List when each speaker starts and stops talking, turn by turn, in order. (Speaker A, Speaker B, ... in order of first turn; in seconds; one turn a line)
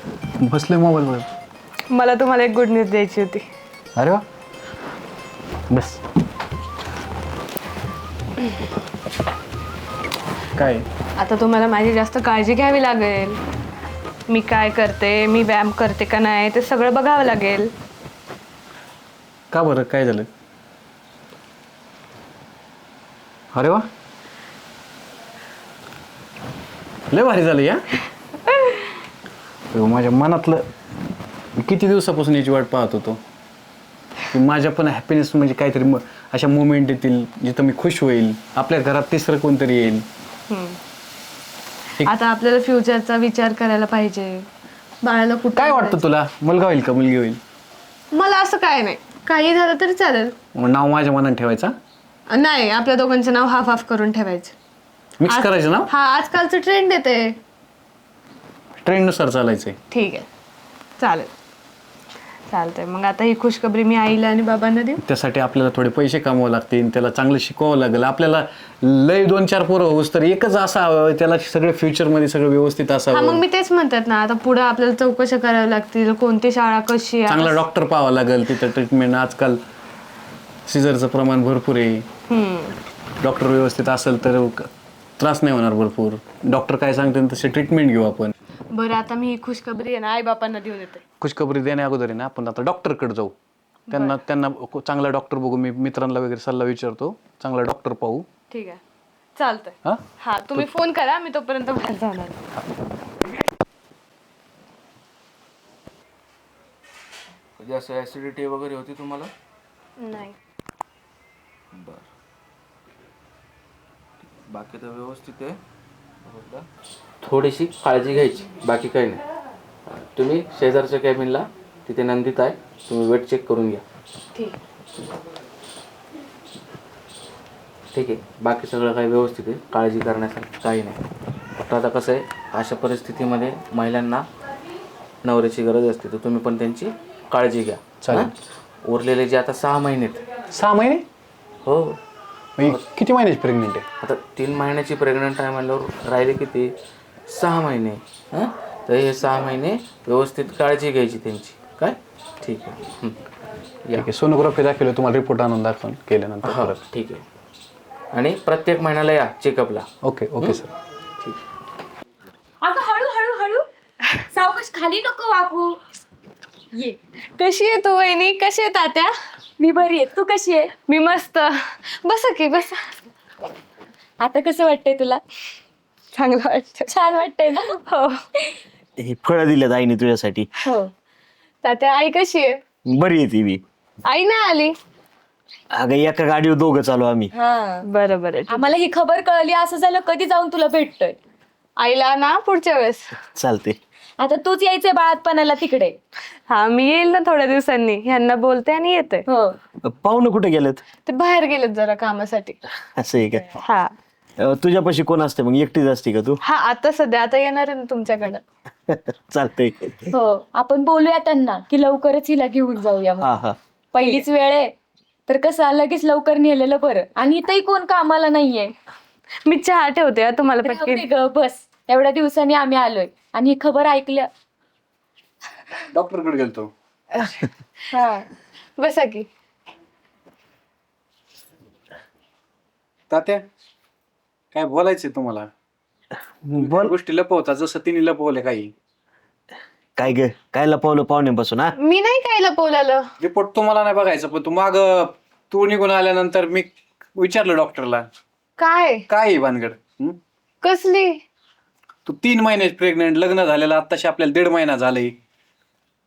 Speaker A: 0.4-1.3
Speaker B: 1.9-3.5
Speaker A: 4.0-4.2
Speaker A: 5.7-6.0
Speaker A: 10.6-10.9
Speaker B: 11.2-13.4
Speaker B: 14.3-17.7
Speaker A: 19.5-20.3
Speaker A: 23.5-23.9
Speaker A: 27.1-27.9
Speaker A: 29.7-30.7
Speaker A: 31.6-33.2
Speaker A: 34.3-40.1
Speaker B: 40.5-40.8
Speaker B: 42.0-44.5
Speaker B: 45.0-46.0
Speaker A: 45.6-47.4
Speaker B: 48.1-50.4
Speaker A: 50.5-51.7
Speaker B: 52.3-54.5
Speaker A: 55.2-55.9
Speaker B: 55.3-57.4
Speaker A: 58.8-59.8
Speaker B: 59.9-60.3
Speaker B: 61.0-61.3
Speaker B: 62.5-65.0
Speaker A: 65.0-73.4
Speaker B: 73.1-77.6
Speaker A: 77.3-79.6
Speaker A: 80.7-82.1
Speaker B: 82.3-82.8
Speaker A: 83.2-84.7
Speaker A: 85.2-88.3
Speaker B: 88.7-91.0
Speaker A: 91.2-93.3
Speaker B: 93.9-94.2
Speaker A: 93.9-98.3
Speaker B: 98.5-98.8
Speaker B: 99.4-102.4
Speaker C: 107.6-109.3
Speaker B: 110.0-110.4
Speaker C: 111.7-112.1
Speaker C: 114.2-115.6
Speaker C: 116.2-116.7
Speaker C: 117.2-119.2
Speaker C: 119.9-123.8
Speaker C: 127.9-131.0
Speaker C: 131.7-134.2
Speaker C: 135.2-140.2
Speaker A: 138.0-138.3
Speaker A: 140.5-141.0
Speaker C: 141.7-142.0
Speaker A: 142.6-143.8
Speaker C: 144.0-146.7
Speaker C: 147.3-153.2
Speaker A: 153.9-156.8
Speaker C: 156.4-157.2
Speaker C: 158.1-159.9
Speaker A: 160.0-160.7
Speaker D: 162.6-163.7
Speaker D: 164.3-165.8
Speaker D: 166.7-167.0
Speaker B: 167.4-169.1
Speaker D: 169.6-170.7
Speaker B: 170.9-172.9
Speaker D: 174.2-175.2
Speaker B: 176.1-176.9
Speaker D: 176.9-177.8
Speaker B: 177.7-178.2
Speaker E: 179.0-180.5
Speaker D: 180.6-180.9
Speaker B: 181.6-182.6
Speaker E: 182.9-183.6
Speaker B: 184.1-184.8
Speaker E: 185.7-187.3
Speaker D: 187.3-187.9
Speaker B: 187.9-188.7
Speaker D: 188.5-191.2
Speaker B: 191.8-193.2
Speaker E: 193.3-193.8
Speaker D: 194.2-196.0
Speaker B: 196.5-199.2
Speaker D: 199.3-199.6
Speaker E: 199.8-200.8
Speaker B: 201.1-202.6
Speaker E: 203.0-203.5
Speaker B: 203.6-203.9
Speaker E: 204.4-206.4
Speaker B: 206.4-208.4
Speaker E: 208.9-210.1
Speaker D: 210.1-213.3
Speaker E: 213.2-213.6
Speaker D: 213.9-214.7
Speaker D: 215.3-218.7
Speaker B: 219.4-221.1
Speaker D: 220.6-224.3
Speaker A: 225.9-226.7
Speaker B: 227.2-227.4
Speaker D: 227.9-228.3
Speaker B: 228.8-229.3
Speaker A: 233.1-233.4
Speaker A: 234.5-235.5
Speaker E: 236.4-236.9
Speaker A: 236.6-238.7
Speaker E: 240.0-241.7
Speaker B: 241.8-243.1
Speaker A: 243.2-248.1
Speaker B: 248.6-249.1
Speaker A: 249.1-250.2
Speaker B: 250.6-251.2
Speaker A: 252.1-255.2